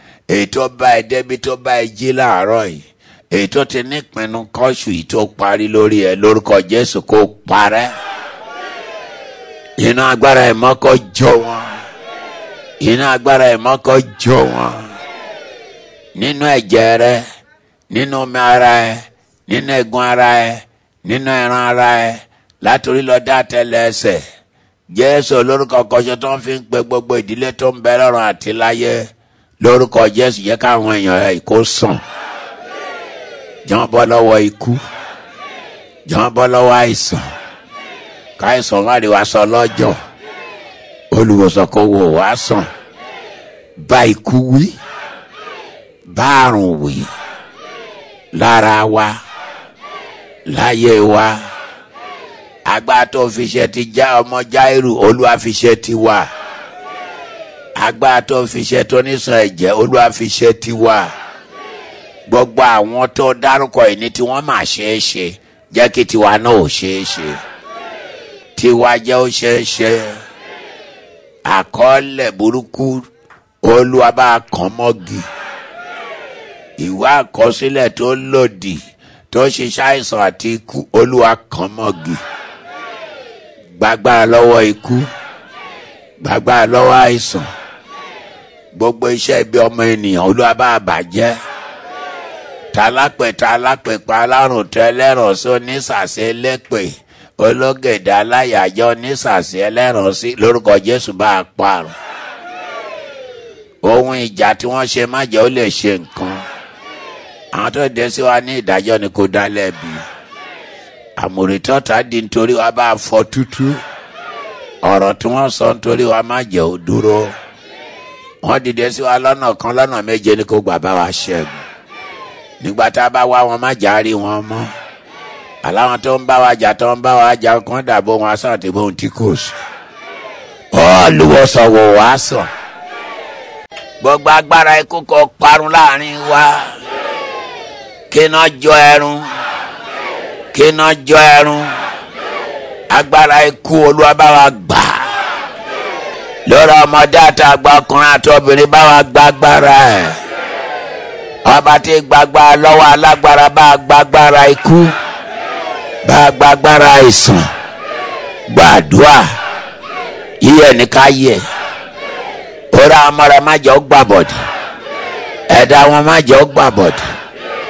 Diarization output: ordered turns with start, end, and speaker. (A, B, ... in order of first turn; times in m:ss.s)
0:00.3-0:08.0 A
0:09.8-0:11.8 A
0:12.8-0:14.9 A
0:16.1-0:17.2 A
0:17.9-0:24.2 A
0:24.9-0:29.1 A
0:29.6-0:32.0 A
0:33.6-0:34.8 A
0:36.0-0:37.2 A
0:38.4-0:40.0 A
0:41.1-0:42.7 A
0:43.8-0:44.8 A
0:46.0-0:47.1 A
0:48.3-0:49.2 A
0:50.5-0:51.4 A
0:52.6-0:56.3 A
0:57.8-1:01.1 A
1:02.3-1:07.4 A
1:08.6-1:10.2 A
1:11.4-1:13.0 A
1:13.6-1:15.3 A
1:16.8-1:18.8 A
1:19.3-1:22.2 A
1:23.8-1:25.1 A
1:26.2-1:27.5 A
1:28.7-1:31.4 A
1:32.7-1:41.9 A
1:43.8-1:46.4 A
1:47.5-1:50.0 A
1:51.2-1:53.8 A
1:54.8-1:57.4 A
1:58.4-2:01.6 A
2:02.6-2:04.7 A
2:05.6-2:09.6 A
2:10.7-2:12.5 A
2:14.0-2:16.7 A
2:18.1-2:19.2 A
2:20.5-2:21.8 A
2:22.9-2:25.1 A
2:26.4-2:30.2 A
2:31.4-2:34.9 A
2:36.0-2:37.4 A
2:38.5-2:39.3 A
2:40.4-2:41.4 A
2:42.7-2:44.4 A
2:45.5-2:47.0 A